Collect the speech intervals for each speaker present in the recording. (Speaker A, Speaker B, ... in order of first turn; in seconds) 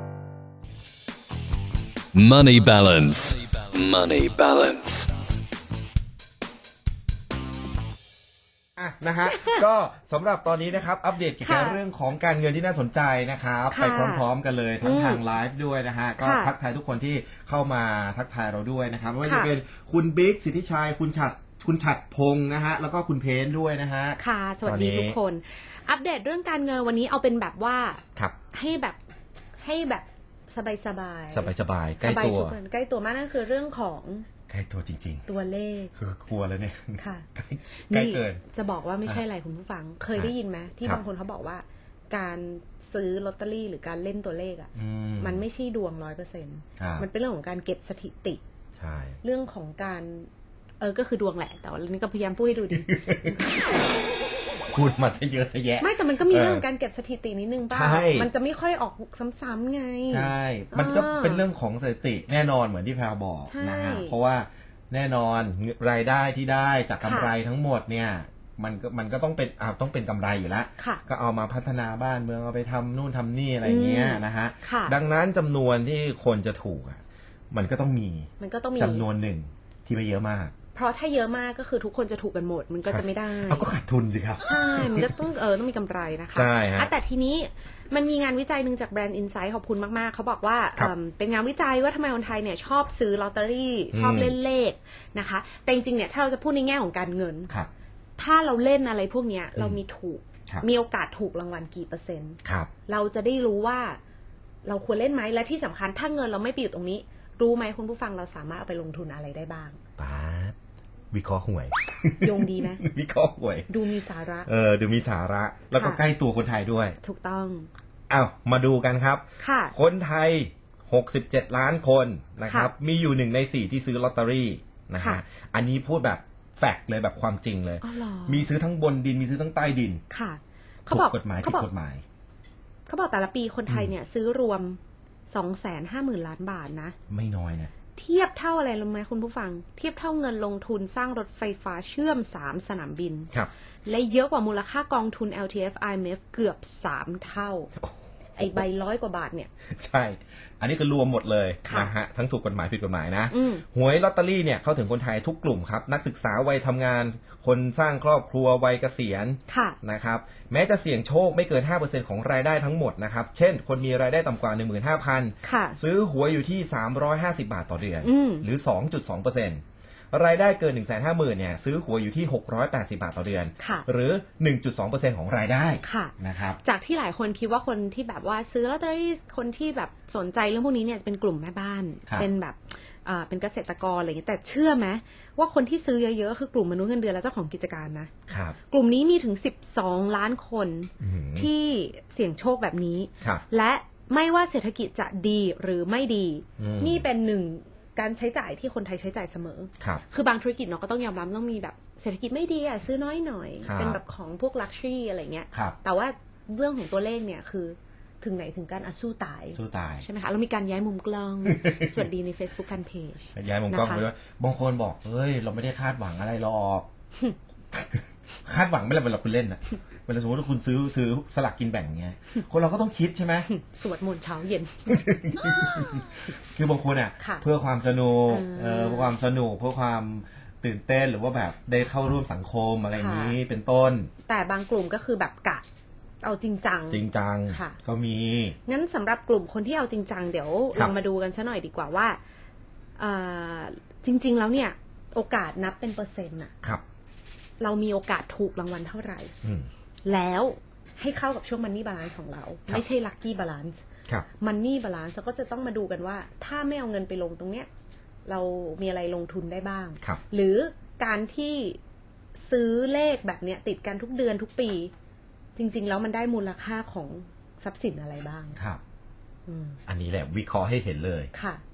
Speaker A: 2.1-5.3
Speaker B: 8.8-25.2, 31.3-32.6, 34.5-35.3, 35.9-38.4, 40.1-41.0, 44.7-45.4, 46.8-47.1, 48.7-49.2, 52.7-53.4, 54.7-56.6, 57.7-58.3, 60.1-80.5, 82.9-85.2, 86.3-86.9, 93.9-94.3, 102.4-102.7, 110.0-110.5, 111.1-113.8, 114.5-117.0, 118.1-130.0, 130.9-132.0, 133.7-133.9, 137.1-137.7, 147.8-148.6, 149.7-176.6, 188.3-188.6, 191.0-191.5, 196.6-197.0, 203.6-204.0, 205.5-205.8, 209.5-210.1, 211.5-212.0, 213.3-216.9, 217.7-223.5, 224.9-234.1, 236.9-238.6, 249.4-249.7, 269.9-271.3
Speaker C: 9.3-9.6, 11.4-11.8, 13.7-14.3, 14.8-15.2, 16.2-16.5, 19.2-19.5, 24.2-29.0, 29.6-34.3, 35.3-35.9, 37.0-37.3, 37.8-48.4, 49.2-50.3, 50.8-53.6, 55.8-61.5, 63.5-64.2, 67.0-67.3, 73.6-75.0, 78.4-79.0, 80.7-83.7, 84.4-97.5, 98.2-104.0, 104.6-109.8, 112.2-112.8, 113.7-114.5, 115.7-116.0, 117.0-117.7, 119.4-119.7, 122.5-122.7, 127.8-128.5, 130.1-131.7, 132.9-136.9, 137.9-143.3, 143.8-147.7, 148.3-149.5, 151.6-151.9, 153.3-153.6, 159.5-159.8, 165.4-165.8, 168.0-168.5, 173.6-173.9, 175.8-214.0, 223.5-224.9, 227.2-227.4, 228.3-229.1, 232.9-233.4, 234.2-235.6, 236.2-237.8, 238.6-242.2, 243.0-246.5, 247.6-249.3, 250.0-253.8, 254.3-257.7, 258.2-261.8, 262.4-264.9, 265.6-268.6, 269.5-269.8, 271.3-271.6